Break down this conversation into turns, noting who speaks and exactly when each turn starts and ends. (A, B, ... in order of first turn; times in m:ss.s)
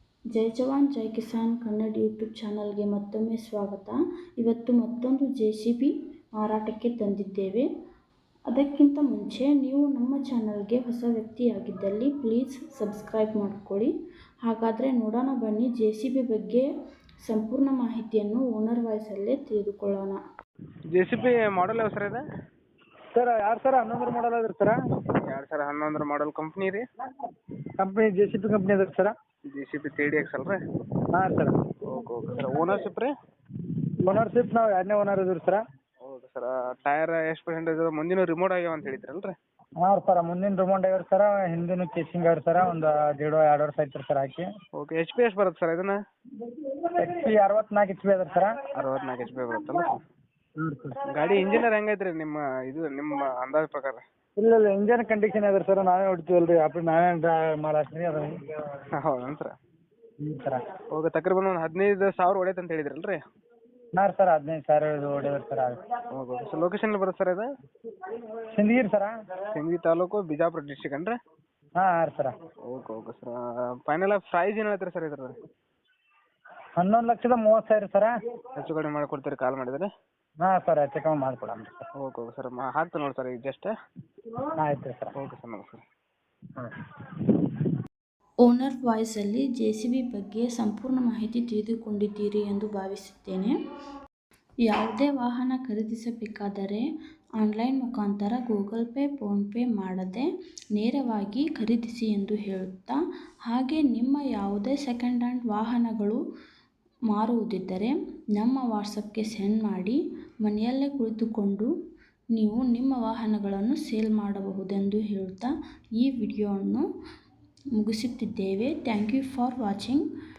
0:00.3-0:07.6 A
0:08.5-0:13.9 A
0:14.4-0:16.7 A
0:17.2-0:20.2 A
0:20.9-0:22.2 B
0:23.1-0:24.8 C
0:25.2-0:26.8 B
0:27.8-0:29.1 C
0:29.5-0:30.6 B
0:31.1-0:31.6 C
0:31.8-0:33.1 B
0:34.0-0:35.6 C
0:36.0-0:39.4 B
0:39.8-0:44.5 C
0:44.8-0:46.0 B
0:46.5-0:48.6 C
0:48.7-0:50.0 B
0:50.6-0:51.0 C
0:51.1-0:54.0 B
0:54.4-0:58.4 C
0:59.0-0:59.5 B
1:00.2-1:00.6 C
1:00.9-1:03.2 B
1:03.9-1:05.8 C
1:06.1-1:07.5 B
1:08.1-1:09.1 C
1:09.5-1:11.2 B
1:11.8-1:12.3 C
1:12.6-1:15.4 B
1:16.8-1:18.1 C
1:18.6-1:19.9 B
1:20.4-1:21.9 C
1:22.0-1:23.7 B
1:24.6-1:25.1 C
1:25.2-1:25.8 B
1:28.4-1:33.5 A
1:34.7-1:36.8 A
1:37.4-1:46.2 A
1:47.1-1:51.7 A
1:52.3-1:56.8 A
1:57.8-2:00.0 A